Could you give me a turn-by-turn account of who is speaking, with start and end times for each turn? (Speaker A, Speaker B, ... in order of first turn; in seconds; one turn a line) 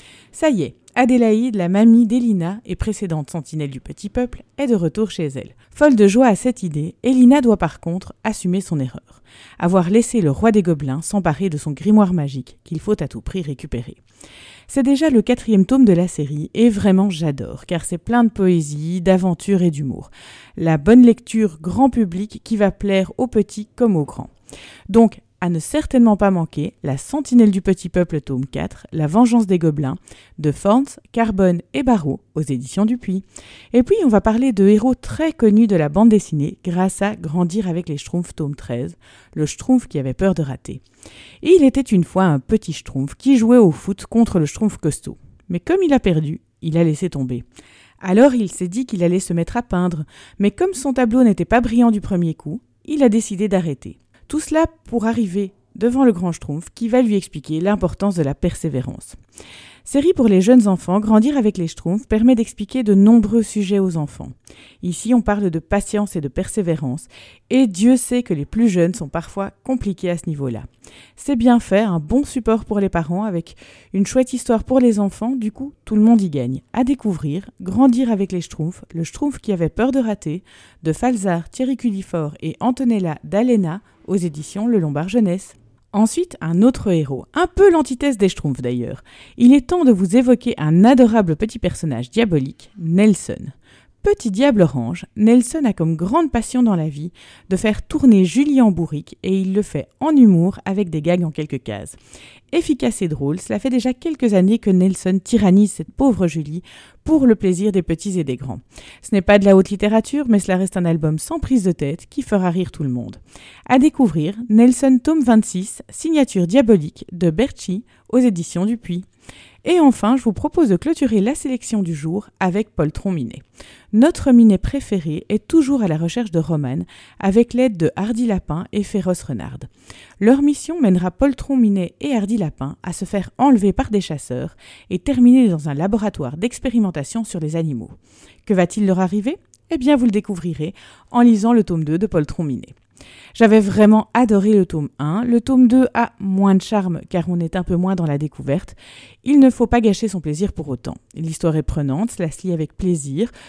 Speaker A: 0.3-14.0
Speaker A: 14.7-24.3
Speaker A: 24.9-40.8
Speaker A: 41.4-47.5
Speaker A: 48.0-59.2
Speaker A: 59.8-102.0
Speaker A: 102.5-119.1
Speaker A: 119.6-129.7
Speaker A: 130.2-137.9
Speaker A: 138.5-142.8
Speaker A: 143.3-153.3